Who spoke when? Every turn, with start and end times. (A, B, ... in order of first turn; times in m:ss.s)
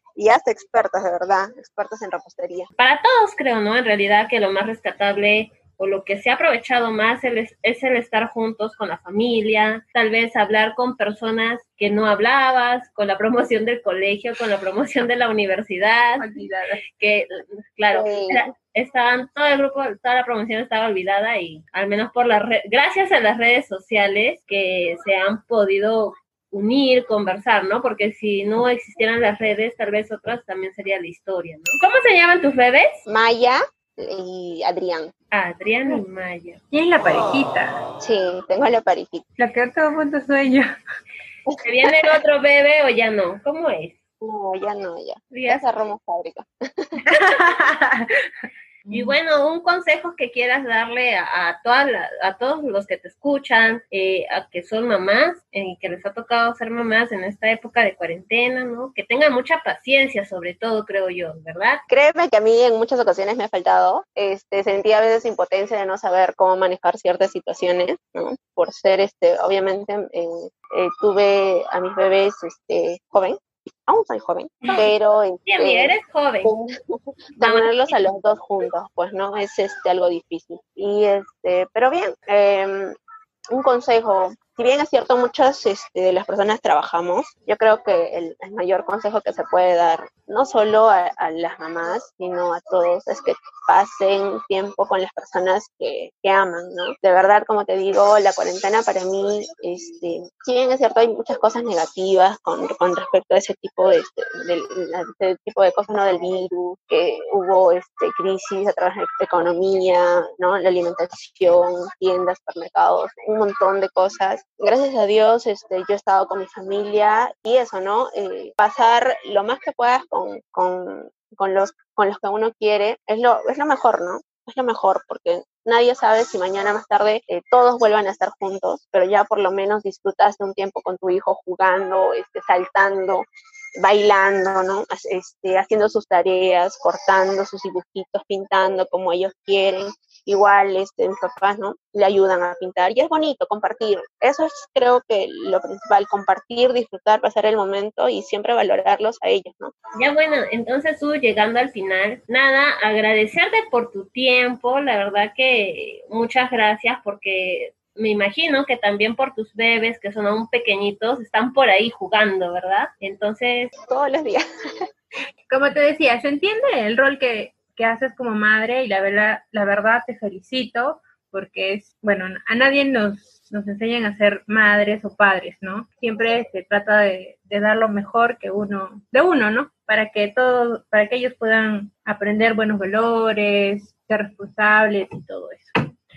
0:00.2-0:02.7 A
0:02.8-0:16.2 B
0:16.2-0:16.8 C
0:17.0-0:33.0 B
0:17.9-0:18.4 A
0:33.0-0:35.1 A
0:35.3-0:36.6 B
0:36.7-0:37.8 C
0:38.0-0:39.2 A
0:39.4-0:40.7 C
0:41.5-0:41.9 A
0:41.6-0:44.0 B
0:44.2-0:47.2 A
0:45.3-0:45.6 B
0:47.1-0:48.1 C
0:48.8-0:49.2 C
0:48.9-1:01.8 B
1:01.9-1:22.9 A
1:15.4-1:16.5 B
1:17.4-1:18.0 B
1:23.5-2:13.2 A
2:13.8-2:29.7 A
2:30.0-2:43.7 B
2:43.8-2:44.4 A
2:45.5-3:05.7 C